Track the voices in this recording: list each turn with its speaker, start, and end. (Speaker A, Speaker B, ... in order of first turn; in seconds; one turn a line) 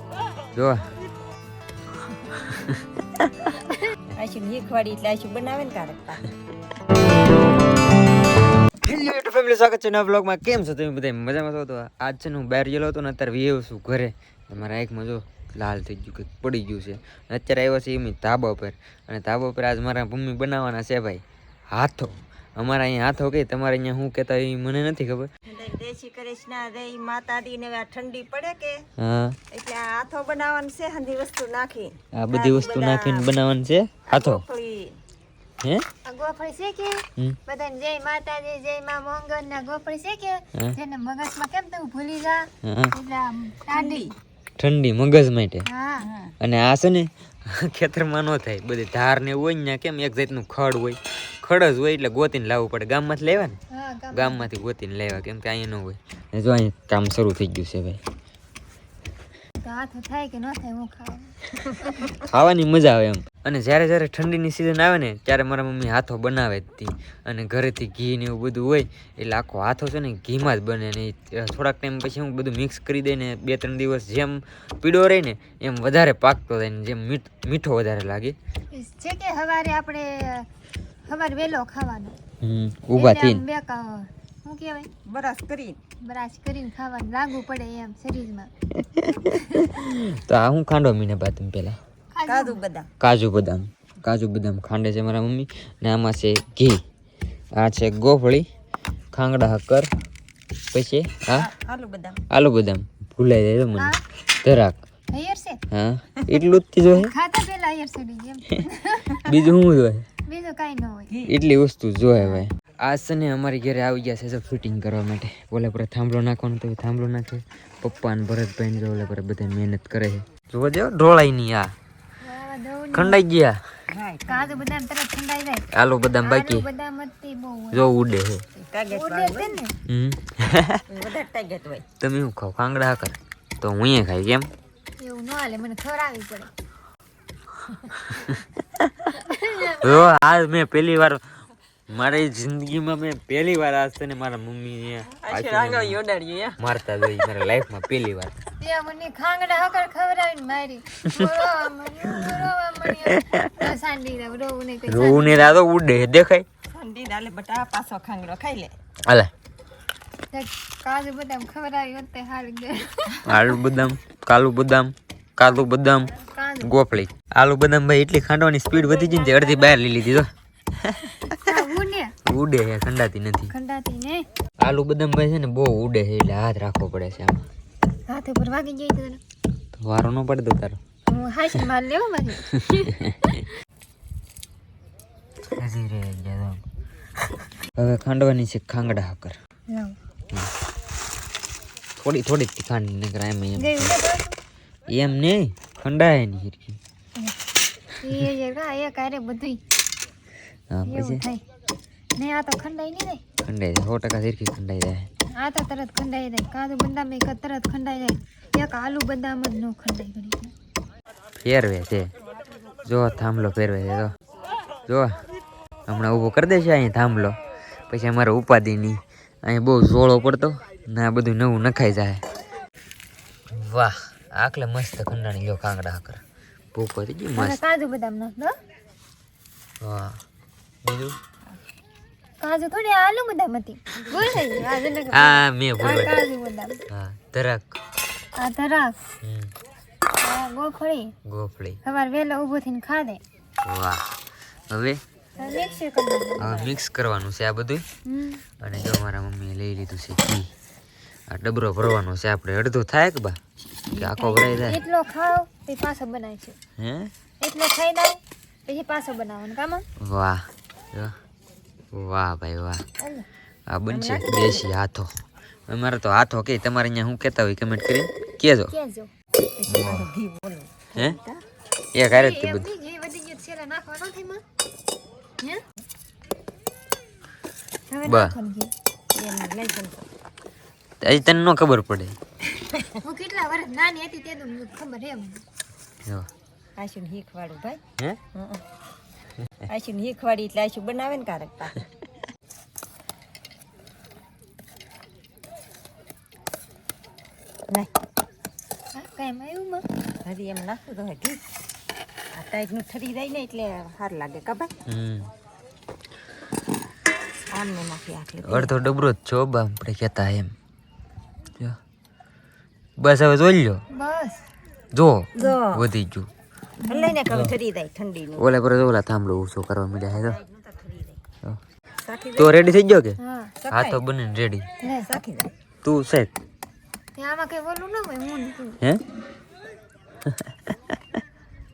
Speaker A: 0.5-0.8
Speaker A: 2.3-3.5
Speaker B: 4.1-6.3
Speaker A: 8.8-25.3
Speaker B: 25.5-28.8
Speaker A: 29.0-29.4
Speaker B: 29.5-33.3
Speaker A: 32.1-34.4
Speaker B: 34.1-35.0
Speaker C: 36.0-44.1
Speaker A: 42.6-42.9
Speaker B: 43.7-44.1
Speaker A: 44.6-45.7
Speaker C: 45.6-46.1
Speaker B: 46.0-46.3
Speaker A: 46.4-53.6
Speaker C: 53.7-54.5
Speaker A: 54.1-58.0
Speaker C: 59.6-62.0
Speaker A: 62.1-78.3
Speaker C: 78.7-80.5
Speaker C: 81.0-82.2
Speaker A: 82.4-83.4
Speaker C: 82.9-84.9
Speaker B: 85.1-85.8
Speaker C: 86.0-88.5
Speaker A: 88.7-91.8
Speaker C: 92.1-92.6
Speaker B: 92.3-92.9
Speaker A: 93.0-96.8
Speaker A: 97.5-98.5
Speaker A: 99.1-99.9
Speaker A: 100.7-101.5
Speaker B: 101.3-102.2
Speaker A: 102.3-104.8
Speaker C: 105.1-105.6
Speaker A: 105.7-107.1
Speaker C: 106.9-109.4
Speaker A: 109.2-110.0
Speaker C: 110.2-111.1
Speaker A: 111.2-121.7
Speaker C: 122.2-123.2
Speaker A: 122.9-123.6
Speaker B: 123.9-124.6
Speaker C: 124.3-125.7
Speaker A: 125.7-126.7
Speaker C: 126.2-127.9
Speaker A: 127.7-128.4
Speaker B: 128.6-129.6
Speaker C: 128.9-129.7
Speaker A: 129.8-130.8
Speaker B: 130.9-131.8
Speaker A: 132.0-134.5
Speaker C: 135.0-136.5
Speaker A: 138.2-139.1
Speaker C: 139.2-140.1
Speaker A: 139.8-141.2
Speaker A: 141.9-146.0
Speaker B: 145.1-146.6
Speaker A: 146.6-148.4
Speaker C: 148.6-155.5
Speaker A: 152.1-152.4
Speaker A: 153.0-153.5
Speaker A: 154.9-156.4
Speaker B: 156.7-158.7
Speaker C: 160.3-163.2
Speaker A: 163.2-171.6
Speaker C: 166.2-166.7
Speaker C: 168.7-169.8
Speaker C: 171.4-172.1
Speaker A: 172.2-173.5
Speaker C: 173.5-174.2
Speaker A: 174.6-177.5
Speaker C: 178.1-179.2
Speaker A: 179.7-180.8
Speaker C: 181.1-182.9
Speaker A: 182.5-183.4
Speaker A: 185.6-186.6
Speaker A: 187.8-189.3
Speaker C: 189.7-189.9
Speaker A: 192.0-194.0
Speaker C: 193.6-194.3
Speaker A: 194.9-196.8
Speaker C: 198.0-199.6
Speaker A: 200.7-201.2
Speaker C: 200.9-201.4
Speaker C: 202.2-203.2
Speaker A: 203.4-205.1
Speaker C: 205.3-210.5
Speaker A: 211.4-212.1
Speaker A: 212.8-214.1
Speaker A: 214.8-215.1
Speaker A: 215.9-217.3
Speaker A: 217.9-222.2
Speaker A: 223.5-226.2
Speaker A: 226.7-227.6
Speaker C: 227.3-228.5
Speaker A: 229.8-230.2
Speaker A: 230.8-231.1
Speaker C: 232.4-236.8
Speaker A: 235.1-236.2
Speaker A: 236.9-237.8
Speaker C: 238.4-238.9
Speaker A: 239.2-239.5
Speaker C: 240.2-241.1
Speaker A: 241.2-241.8
Speaker C: 241.8-243.2
Speaker A: 243.6-244.0
Speaker A: 244.7-245.0
Speaker C: 245.4-246.6
Speaker A: 246.4-247.8
Speaker C: 248.1-248.4
Speaker A: 248.6-250.5
Speaker A: 251.3-253.4
Speaker B: 253.9-254.6
Speaker A: 253.9-254.8
Speaker C: 254.6-256.6
Speaker A: 256.8-257.1
Speaker C: 257.4-259.8
Speaker A: 260.0-261.1
Speaker A: 261.9-262.8
Speaker A: 263.7-265.1
Speaker B: 263.9-264.7
Speaker A: 265.7-268.7
Speaker C: 268.7-269.1
Speaker B: 269.6-271.4
Speaker A: 269.7-270.1
Speaker A: 271.9-272.7
Speaker C: 272.1-274.4
Speaker C: 277.9-278.7
Speaker A: 278.0-278.4
Speaker B: 279.1-280.0
Speaker A: 281.0-282.1
Speaker B: 282.6-283.0
Speaker C: 283.0-285.4
Speaker B: 286.8-287.8
Speaker B: 288.3-288.6
Speaker B: 289.7-291.8
Speaker C: 298.9-299.8
Speaker B: 300.2-301.4
Speaker B: 302.3-304.7
Speaker A: 304.9-305.3
Speaker B: 307.5-308.8
Speaker A: 308.4-310.5
Speaker A: 313.0-313.8
Speaker C: 313.9-314.4
Speaker A: 314.9-316.3
Speaker B: 315.4-315.8
Speaker B: 316.8-318.4
Speaker C: 316.9-317.1
Speaker A: 317.3-317.5
Speaker A: 318.4-320.4
Speaker B: 320.1-321.2
Speaker B: 322.0-322.7
Speaker A: 322.4-323.2
Speaker C: 323.2-323.5
Speaker B: 323.6-324.0
Speaker A: 323.7-324.7
Speaker C: 324.8-325.1
Speaker B: 324.9-325.5
Speaker A: 325.8-326.3
Speaker C: 327.1-328.8
Speaker A: 330.2-330.7